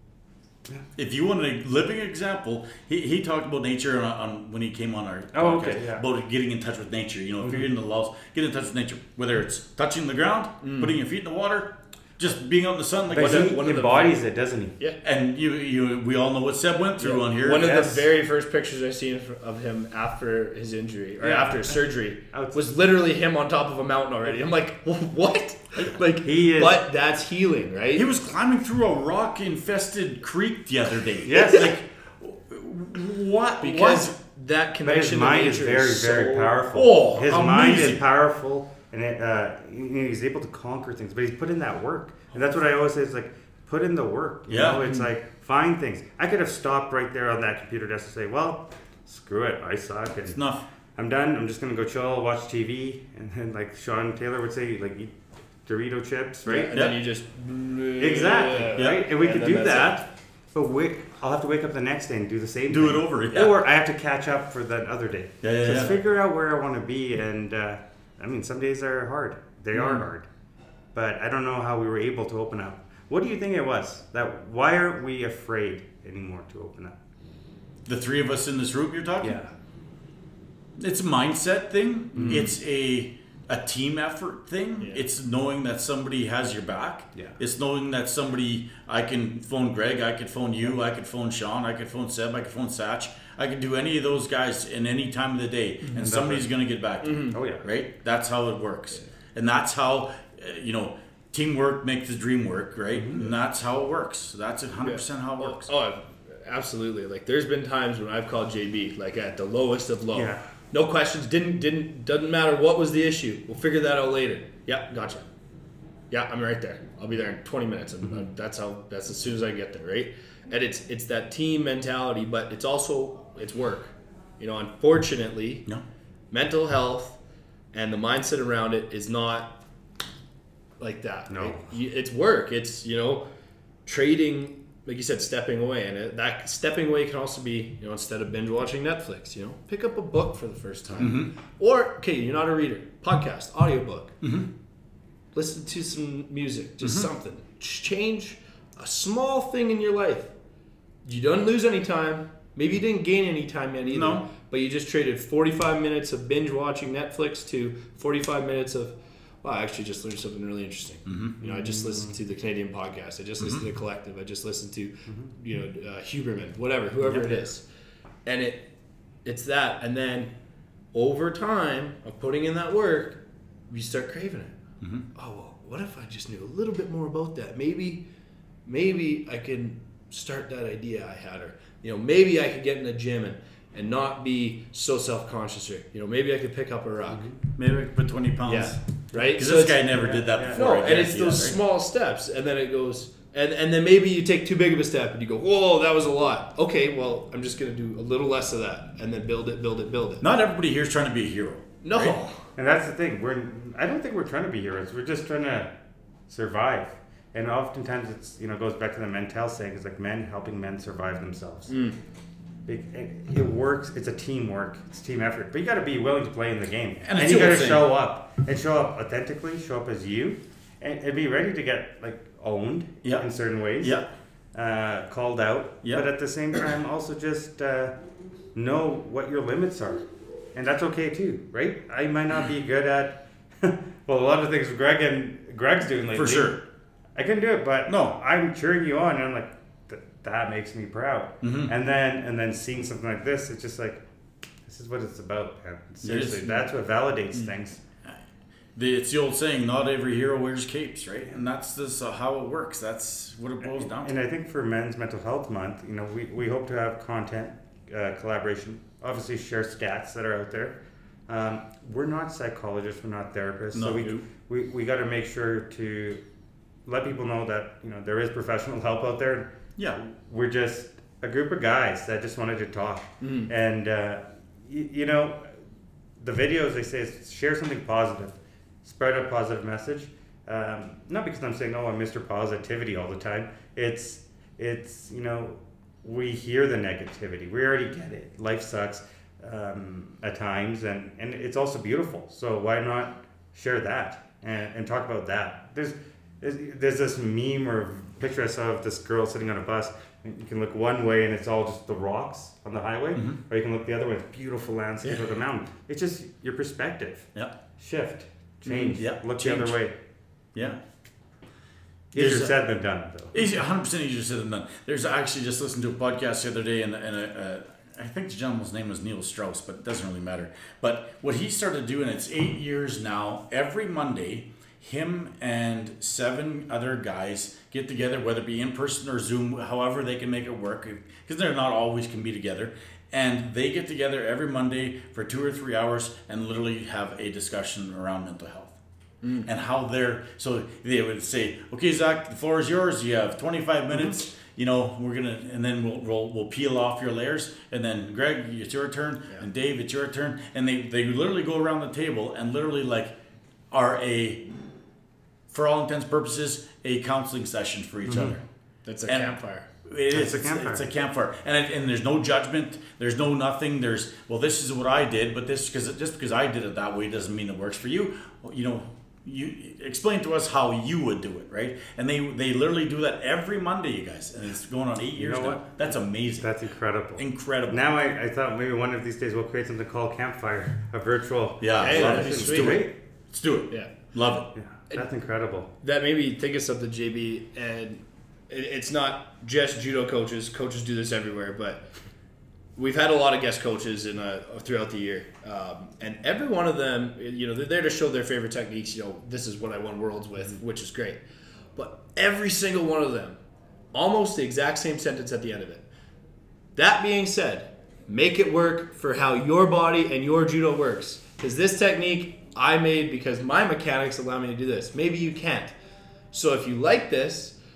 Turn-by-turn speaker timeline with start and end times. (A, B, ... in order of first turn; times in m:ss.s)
0:01.0-0:13.6 A
0:05.3-0:06.0 B
0:10.6-0:11.0 C
0:13.1-0:14.8 B
0:13.1-0:14.2 C
0:15.0-0:18.1 A
0:17.0-0:28.1 C
0:21.2-0:22.7 B
0:26.2-0:26.8 B
0:27.9-0:34.1 A
0:31.2-0:31.7 B
0:33.6-0:36.5 C
0:34.8-0:50.4 B
0:36.7-0:38.0 A
0:44.5-0:45.0 A
0:50.2-0:50.6 A
0:51.0-0:55.1 B
0:55.6-0:56.8 B
0:56.4-1:00.0 C
0:56.7-0:57.0 A
0:58.0-1:10.3 B
1:02.7-1:03.6 A
1:05.4-1:05.9 A
1:10.9-1:17.0 B
1:17.8-1:19.4 A
1:19.2-1:19.5 B
1:20.8-1:45.7 A
1:22.1-1:22.6 B
1:36.0-1:36.5 B
1:37.0-1:37.4 C
1:37.3-1:37.6 B
1:43.0-1:43.3 B
1:44.8-1:55.3 C
1:50.1-1:50.4 B
1:56.1-2:05.7 C
2:06.3-2:07.2 C
2:07.7-2:09.6 C
2:10.8-2:13.2 C
2:11.3-2:11.7 B
2:13.8-2:24.1 C
2:21.0-2:21.3 A
2:24.2-2:24.5 A
2:25.3-2:30.3 C
2:31.0-2:47.6 C
2:33.9-2:34.2 A
2:41.0-2:41.4 A
2:41.4-2:42.1 B
2:48.2-2:48.7 C
2:49.2-2:50.3 C
2:50.9-2:54.5 C
2:54.8-2:55.0 A
2:55.1-2:58.0 C
2:58.6-3:07.3 C
3:07.1-3:07.4 B
3:07.6-3:11.6 A
3:08.5-3:20.2 C
3:10.0-3:10.6 B
3:20.2-3:22.2 A
3:21.8-3:22.4 C
3:22.6-3:25.7 B
3:26.3-3:31.8 B
3:31.7-3:32.0 C
3:32.6-3:44.0 B
3:37.0-3:37.9 A
3:43.0-3:43.3 A
3:43.8-3:44.0 A
3:44.5-3:47.9 B
3:48.5-3:56.6 B
3:56.1-3:56.6 A
3:57.1-4:04.0 B
3:57.9-3:58.2 A
4:01.4-4:01.7 A
4:04.6-4:07.8 B
4:06.0-4:06.6 A
4:08.7-4:14.1 A
4:13.6-4:26.2 B
4:23.7-4:24.2 A
4:26.8-4:35.6 B
4:33.2-4:33.5 C
4:36.2-5:09.9 B
5:05.0-5:05.3 A
5:08.7-5:09.8 A
5:12.1-5:13.4 B
5:12.1-5:12.6 A
5:13.3-5:38.8 A
5:39.2-5:39.5 C
5:39.4-5:53.1 A
5:53.7-5:54.4 A
5:55.5-5:58.4 A
5:58.1-5:58.4 B
5:58.8-5:59.7 C
5:59.0-6:16.5 A
6:00.1-6:00.8 B
6:15.2-6:15.7 B
6:16.4-6:22.9 B
6:17.2-6:17.8 A
6:21.6-6:24.5 A
6:21.8-6:22.8 C
6:24.5-6:25.7 B
6:25.8-6:31.9 C
6:32.8-6:41.2 C
6:41.8-6:43.4 C
6:43.9-6:45.8 C
6:46.8-6:55.7 C
6:56.3-6:57.6 C